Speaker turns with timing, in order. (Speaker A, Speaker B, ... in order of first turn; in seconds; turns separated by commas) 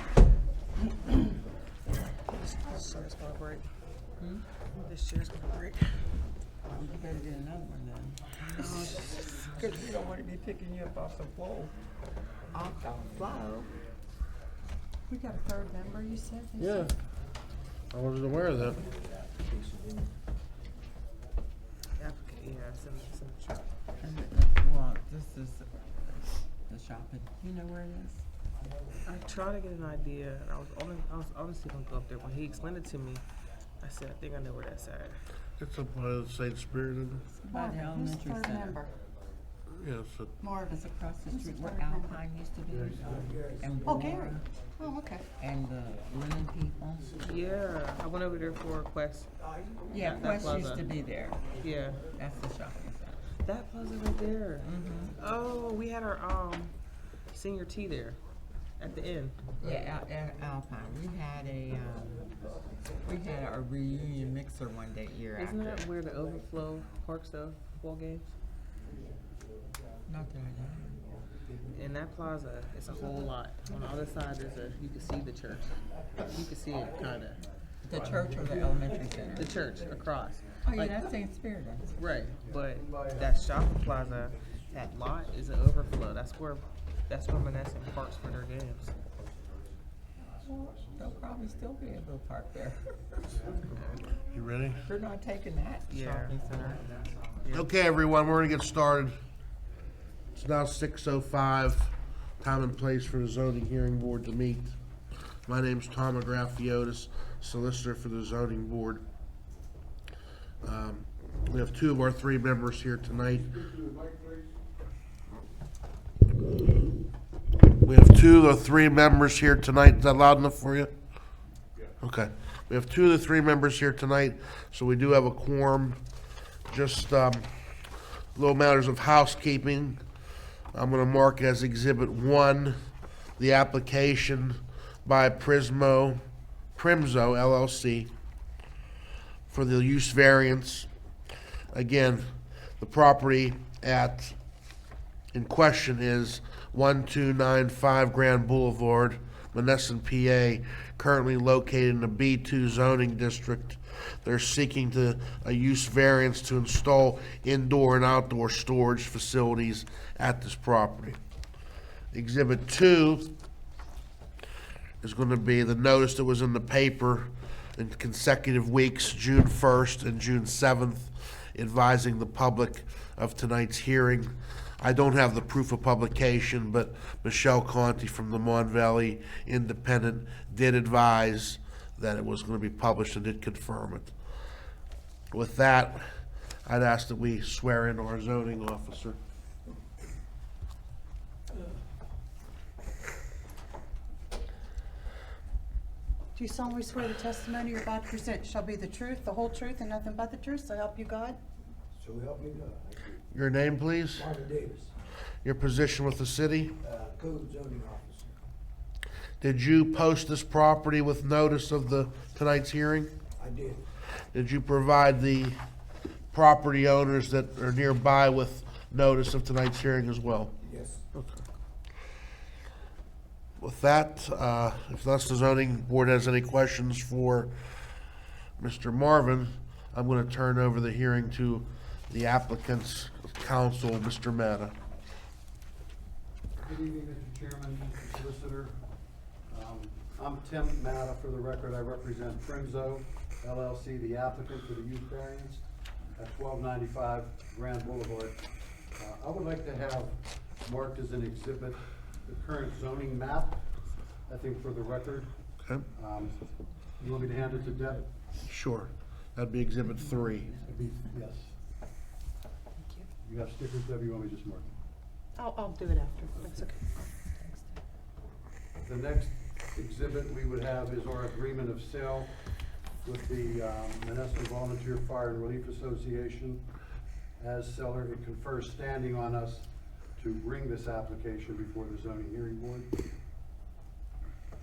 Speaker A: 2.3-3.6, Speaker A: 4.8-6.0, Speaker B: 6.7-11.7, Speaker A: 8.5-9.7, Speaker B: 12.5-13.7, Speaker C: 15.1-16.9, Speaker D: 16.6-16.9, Speaker D: 17.9-18.8, Speaker E: 19.1-20.1, Speaker A: 22.0-23.7, Speaker B: 24.0-28.2, Speaker A: 29.1-33.2, Speaker A: 33.8-35.1, Speaker D: 35.6-37.2, Speaker B: 37.4-38.8, Speaker C: 37.4-38.9, Speaker D: 39.7-40.4, Speaker C: 40.4-42.2, Speaker B: 40.6-44.5, Speaker F: 42.7-43.5, Speaker E: 43.0-43.8, Speaker C: 43.8-45.2, Speaker B: 45.4-47.1, Speaker A: 47.2-49.3, Speaker B: 49.9-51.5, Speaker A: 49.9-50.9, Speaker A: 51.6-52.0, Speaker B: 52.0-53.2, Speaker A: 53.4-56.7, Speaker B: 54.6-55.1, Speaker A: 57.3-58.2, Speaker A: 58.8-59.4, Speaker B: 59.6-62.3, Speaker B: 63.0-65.9, Speaker A: 65.4-68.3, Speaker B: 70.1-71.0, Speaker A: 71.7-75.7, Speaker A: 76.2-77.4, Speaker B: 77.8-79.5, Speaker A: 79.3-81.0, Speaker B: 80.6-81.9, Speaker A: 82.0-88.9, Speaker F: 82.4-83.3, Speaker B: 90.4-93.4, Speaker D: 94.3-94.8, Speaker B: 94.8-96.8, Speaker A: 95.9-96.3, Speaker A: 97.4-97.7, Speaker D: 97.5-99.2, Speaker D: 100.3-104.7, Speaker D: 105.5-109.0, Speaker D: 110.6-113.9, Speaker D: 117.8-120.9, Speaker D: 122.0-126.0, Speaker D: 126.7-127.5, Speaker D: 128.3-130.0, Speaker D: 130.7-132.8, Speaker D: 133.4-136.2, Speaker D: 136.8-138.1, Speaker D: 139.5-140.9, Speaker D: 141.7-142.2, Speaker D: 142.8-144.3, Speaker D: 145.3-161.2, Speaker D: 162.1-163.3, Speaker D: 165.0-184.1, Speaker D: 185.3-186.0, Speaker D: 186.7-189.2, Speaker C: 196.3-201.4, Speaker E: 201.9-203.1, Speaker D: 203.3-204.3, Speaker E: 204.1-204.9, Speaker D: 205.4-206.8, Speaker E: 206.8-208.4, Speaker D: 209.4-213.1, Speaker E: 213.4-213.8, Speaker D: 214.3-215.6, Speaker D: 216.3-220.5, Speaker E: 220.6-221.0, Speaker D: 221.1-221.4, Speaker D: 223.6-227.5, Speaker D: 228.6-234.7, Speaker F: 236.6-238.7, Speaker F: 239.5-245.6, Speaker F: 246.2-248.4, Speaker F: 248.9-253.6, Speaker F: 254.3-255.3, Speaker D: 255.6-255.8, Speaker F: 255.9-256.4, Speaker F: 257.0-258.1, Speaker D: 258.4-260.5, Speaker F: 260.6-261.5, Speaker C: 262.8-263.1, Speaker F: 263.2-264.7, Speaker C: 265.4-266.8, Speaker F: 268.8-272.3, Speaker F: 273.0-276.6, Speaker F: 277.4-279.6, Speaker F: 280.2-282.9